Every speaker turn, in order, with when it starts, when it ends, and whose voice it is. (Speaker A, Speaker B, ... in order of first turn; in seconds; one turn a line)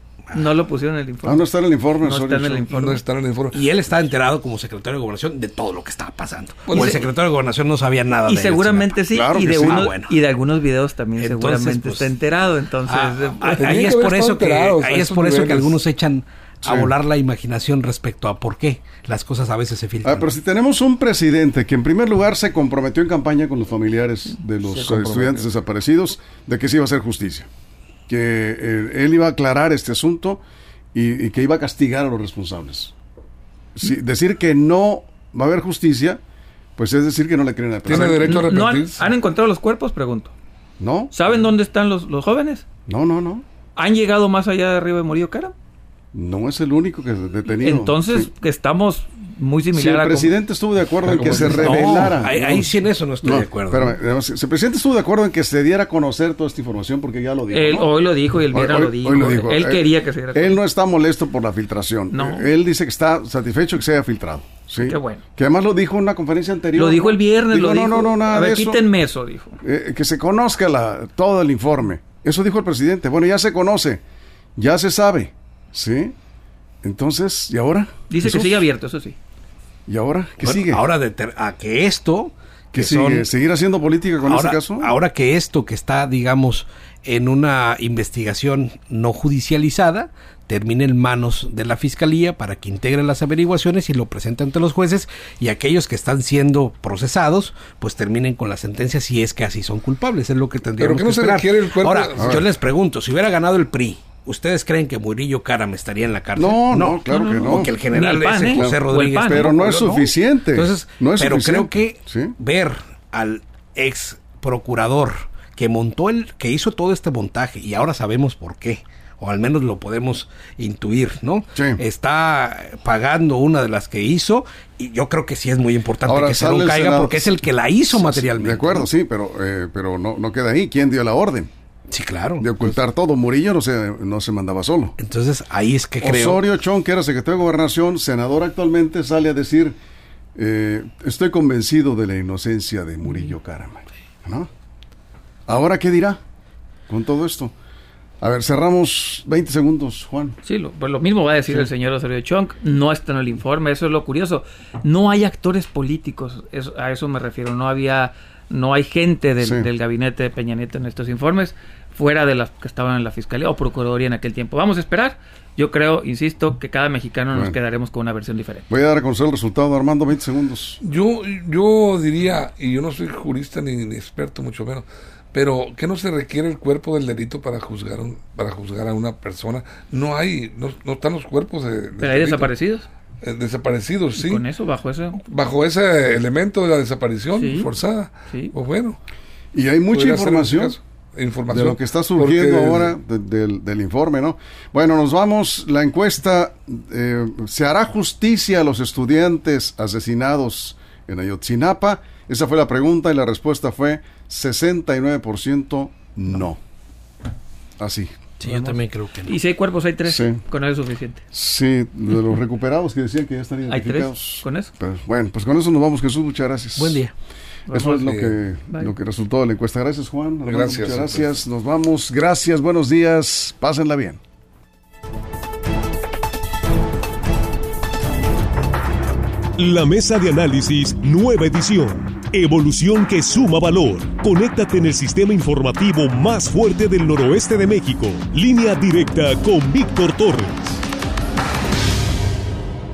Speaker A: 0.3-1.4
Speaker B: 1.2-2.7
Speaker A: 2.0-3.0
Speaker C: 2.7-3.6
Speaker D: 3.5-10.2
Speaker C: 6.7-7.0
Speaker A: 6.7-7.0
Speaker A: 8.2-13.8
Speaker B: 9.1-9.9
Speaker D: 11.2-12.1
Speaker D: 12.8-20.3
Speaker C: 13.4-15.8
Speaker B: 16.6-16.9
Speaker B: 20.0-27.5
Speaker A: 24.7-25.4
Speaker B: 28.1-30.4
Speaker B: 30.9-32.9
Speaker B: 33.7-36.2
Speaker B: 36.8-38.5
Speaker C: 37.9-39.1
Speaker A: 37.9-40.3
Speaker B: 40.8-41.1
Speaker A: 41.1-42.6
Speaker B: 42.9-43.4
Speaker A: 43.8-45.5
Speaker B: 46.1-48.3
Speaker A: 47.5-50.3
Speaker B: 49.7-52.7
Speaker C: 51.0-52.1
Speaker D: 51.2-54.0
Speaker A: 51.6-52.2
Speaker B: 53.2-57.9
Speaker A: 57.5-60.6
Speaker B: 58.5-68.8
Speaker A: 62.1-62.5
Speaker A: 64.8-65.2
Speaker A: 66.8-69.6
Speaker B: 69.6-74.0
Speaker B: 74.5-76.1
Speaker B: 76.8-78.5
Speaker A: 78.1-79.2
Speaker B: 79.9-80.8
Speaker D: 80.4-83.3
Speaker B: 82.7-84.9
Speaker D: 84.2-128.9
Speaker C: 100.8-102.4
Speaker B: 102.2-102.4
Speaker B: 106.3-107.7
Speaker A: 107.1-109.6
Speaker B: 108.5-112.3
Speaker B: 121.5-121.8
Speaker B: 126.0-127.3
Speaker B: 127.9-131.5
Speaker D: 131.9-132.8
Speaker B: 132.4-134.9
Speaker D: 135.0-136.4
Speaker B: 136.0-139.8
Speaker B: 140.3-144.5
Speaker B: 145.5-146.2
Speaker B: 146.9-147.5
Speaker B: 148.2-150.4
Speaker A: 150.4-168.7
Speaker B: 159.4-159.7
Speaker B: 168.7-170.8
Speaker C: 170.8-182.5
Speaker A: 182.0-182.9
Speaker C: 183.2-184.4
Speaker A: 184.2-185.2
Speaker C: 185.2-189.0
Speaker A: 187.3-187.7
Speaker B: 189.5-190.8
Speaker C: 189.9-192.9
Speaker B: 191.5-206.6
Speaker B: 207.8-208.1
Speaker D: 208.4-209.3
Speaker A: 208.4-211.2
Speaker B: 210.1-210.4
Speaker B: 211.3-217.0
Speaker A: 213.7-214.7
Speaker D: 216.8-217.1
Speaker A: 217.7-218.1
Speaker B: 217.7-224.2
Speaker C: 218.0-218.4
Speaker C: 220.4-221.3
Speaker E: 229.6-240.8